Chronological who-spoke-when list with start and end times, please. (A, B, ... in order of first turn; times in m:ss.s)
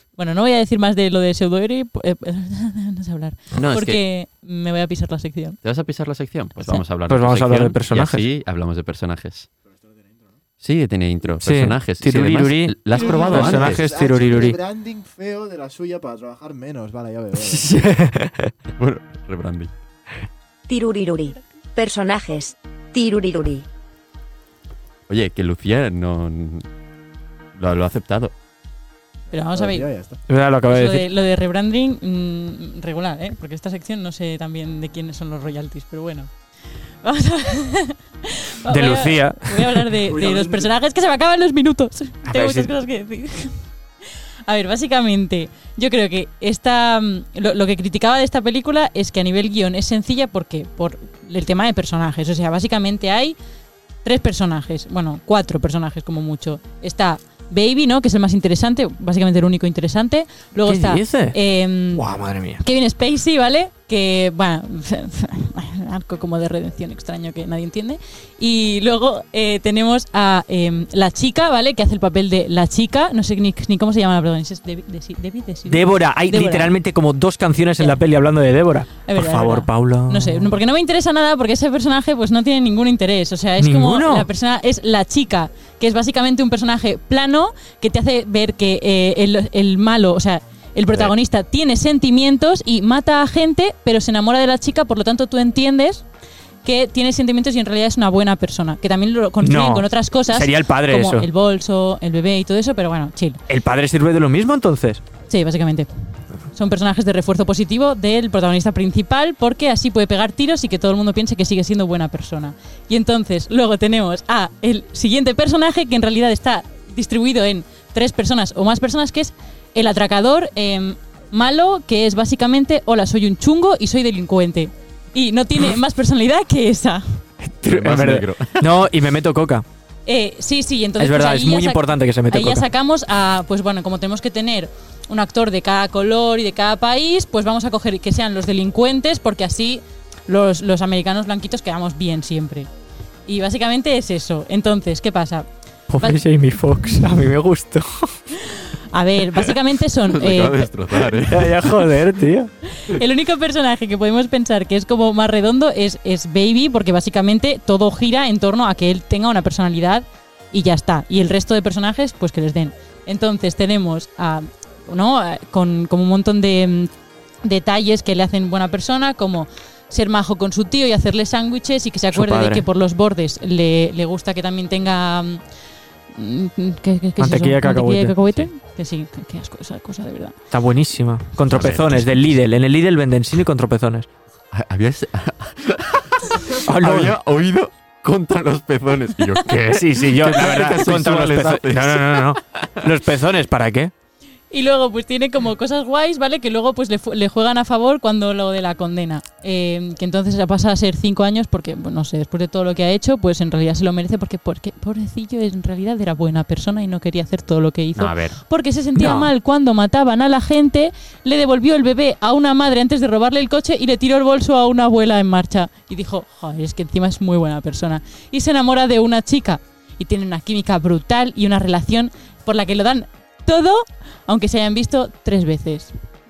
0:00.2-0:05.6 A
0:03.5-0:04.0 B
0:05.6-0:09.5 B
0:07.1-0:08.2 C
0:09.7-0:10.3 D
0:10.6-0:13.9 B
0:11.4-0:14.6 C
0:12.9-0:17.8 D
0:13.0-0:13.3 A
0:17.4-0:18.5 C
0:18.8-0:19.7 B
0:20.7-0:23.6 E
0:25.1-0:26.6 B
0:27.6-0:28.3 B
0:29.3-0:29.9 A
0:29.5-0:30.2 D
0:30.3-0:31.0 C
0:30.7-0:36.3 A
0:37.0-0:43.6 A
0:38.7-0:40.0 C
0:40.1-0:40.7 D
0:42.2-0:42.7 C
0:44.5-0:53.4 A
0:54.0-1:02.0 A
1:00.6-1:01.4 C
1:01.9-1:02.6 C
1:02.6-1:16.7 A
1:15.7-1:20.6 C
1:19.0-1:36.0 A
1:23.6-1:24.3 C
1:36.6-1:43.4 A
1:39.4-1:41.3 C
1:43.5-1:45.0 C
1:45.3-1:45.9 A
1:46.5-2:07.2 A
2:07.4-2:09.6 C
2:07.6-2:08.8 B
2:10.0-2:22.7 A
2:11.0-2:12.6 C
2:23.3-2:25.5 A
2:25.9-2:28.3 C
2:26.0-2:26.2 A
2:28.4-2:30.7 A
2:30.1-2:31.8 B
2:31.2-2:32.5 C
2:32.7-2:46.9 A
2:47.4-2:55.4 A
2:52.1-2:52.6 C
2:56.1-3:00.4 A
2:57.2-2:58.5 C
3:00.5-3:04.1 C
3:01.5-3:02.1 B
3:04.5-3:12.7 B
3:06.6-3:07.2 C
3:09.5-3:13.9 C
3:14.5-3:45.9 A
3:28.0-3:28.4 B
3:28.9-3:29.3 C